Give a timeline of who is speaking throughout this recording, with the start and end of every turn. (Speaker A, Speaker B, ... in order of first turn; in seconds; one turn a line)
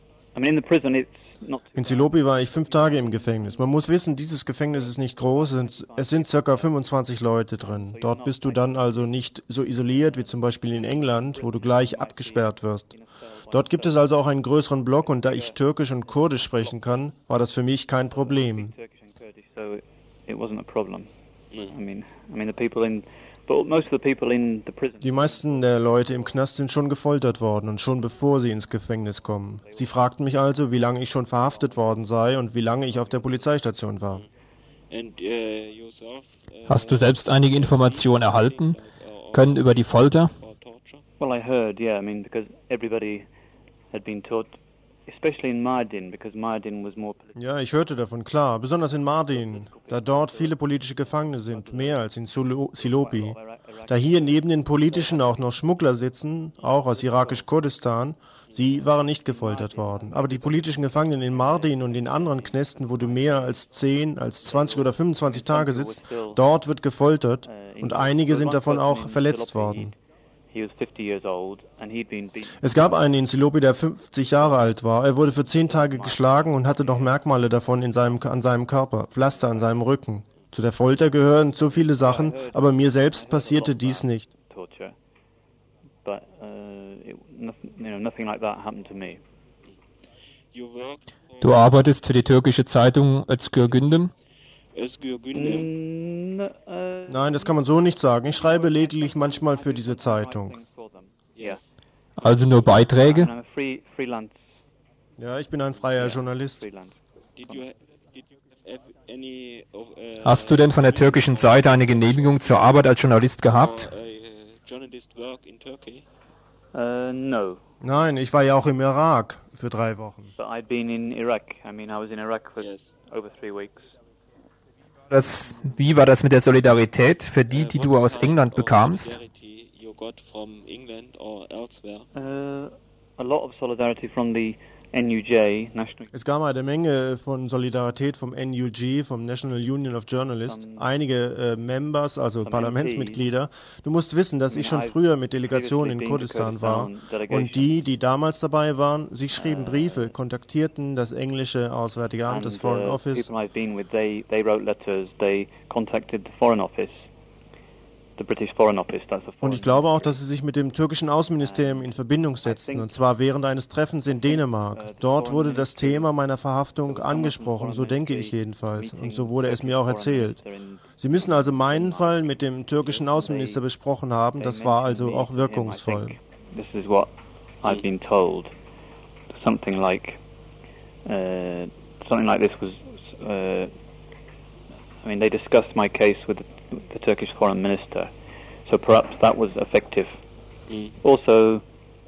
Speaker A: 0.3-4.0
Speaker B: 1.8-12.9
Speaker A: 4.7-6.9
Speaker A: 7.6-9.1
Speaker A: 9.7-17.1
Speaker B: 13.5-18.7
Speaker A: 18.1-21.1
Speaker C: 21.5-21.8
Speaker A: 21.7-26.4
Speaker B: 25.0-34.3
Speaker A: 29.6-30.4
Speaker A: 31.1-32.2
Speaker A: 32.9-33.2
Speaker C: 34.9-41.0
Speaker D: 36.7-38.8
Speaker D: 39.3-40.3
Speaker A: 41.2-43.3
Speaker A: 43.9-47.6
Speaker B: 47.4-69.9
Speaker A: 49.3-55.7
Speaker A: 56.6-57.5
Speaker C: 58.5-58.8
Speaker A: 58.7-63.7
Speaker A: 64.4-66.4
Speaker A: 67.5-70.0
Speaker A: 70.5-73.2
Speaker B: 72.6-84.3
Speaker A: 74.4-74.7
Speaker A: 75.4-77.1
Speaker A: 81.7-85.0
Speaker A: 86.0-89.2
Speaker C: 90.5-91.8
Speaker D: 91.4-94.1
Speaker C: 93.5-93.8
Speaker C: 94.7-95.7
Speaker A: 95.3-101.6
Speaker B: 97.1-100.6
Speaker C: 101.3-101.6
Speaker D: 102.2-103.3
Speaker A: 102.3-104.4
Speaker B: 105.2-106.7
Speaker A: 105.9-107.0
Speaker C: 107.3-116.0
Speaker D: 110.2-113.9
Speaker A: 116.7-117.6
Speaker B: 117.8-120.3
Speaker A: 120.4-123.9
Speaker C: 122.6-122.9
Speaker D: 125.1-129.2
Speaker C: 127.5-132.1
Speaker A: 132.2-136.1
Speaker B: 136.1-153.3
Speaker A: 140.4-140.9
Speaker A: 142.4-143.2
Speaker A: 144.5-147.7
Speaker A: 149.3-150.2
Speaker A: 152.3-157.1
Speaker A: 158.2-160.2
Speaker B: 159.4-170.4
Speaker A: 161.4-163.1
Speaker A: 164.1-166.2
Speaker A: 166.8-173.6
Speaker B: 171.0-176.2
Speaker A: 174.4-178.5
Speaker A: 179.3-180.2
Speaker A: 181.1-183.7
Speaker A: 185.0-188.1
Speaker A: 188.7-190.2
Speaker C: 190.7-191.0
Speaker A: 191.0-191.6